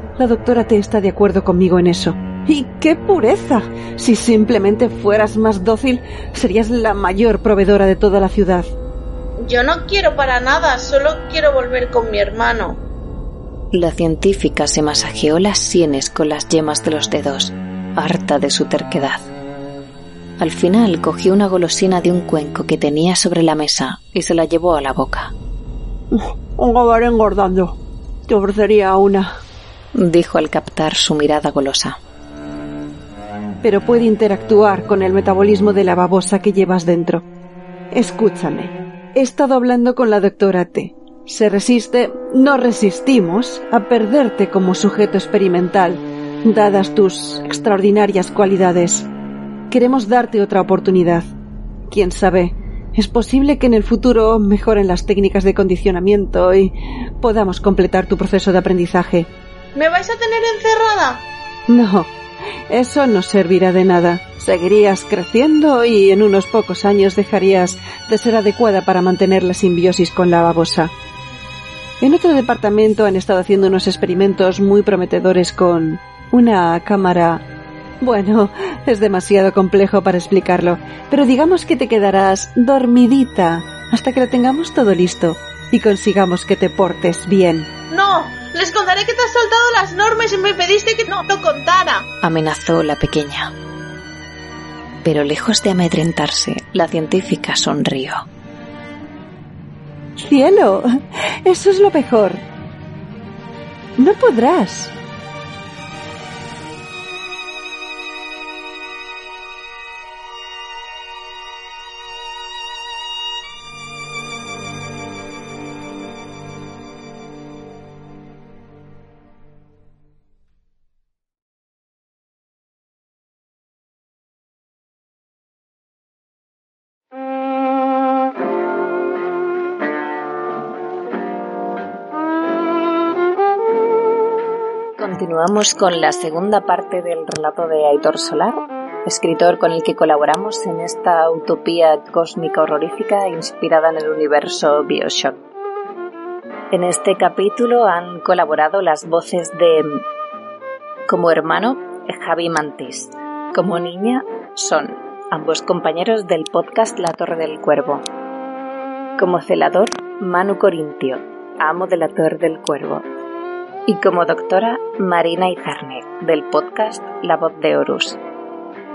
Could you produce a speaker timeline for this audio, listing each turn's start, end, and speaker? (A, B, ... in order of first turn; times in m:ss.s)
0:00.2-0:08.7 A
0:09.4-0:12.8 B
0:13.7-0:19.3 C
0:20.4-0:25.3 C
0:26.1-0:27.8 A
0:28.3-0:29.3 A
0:29.9-0:32.0 C
0:33.6-0:37.2 A
0:37.9-0:49.1 A
0:49.7-0:51.3 A
0:51.9-0:59.3 A
0:59.7-1:01.2 B
1:01.7-1:02.1 A
1:02.7-1:10.9 A
1:12.0-1:17.4 A
1:18.0-1:27.7 A
1:27.9-1:32.1 B
1:32.2-1:33.5 C
1:35.0-1:38.2 C
1:40.2-1:40.8 A
1:41.4-1:42.4 A
1:44.0-1:44.9 A
2:15.0-2:25.4 C
2:26.7-2:30.0 C
2:31.1-2:38.0 C
2:39.2-2:43.0 C
2:43.8-2:48.2 C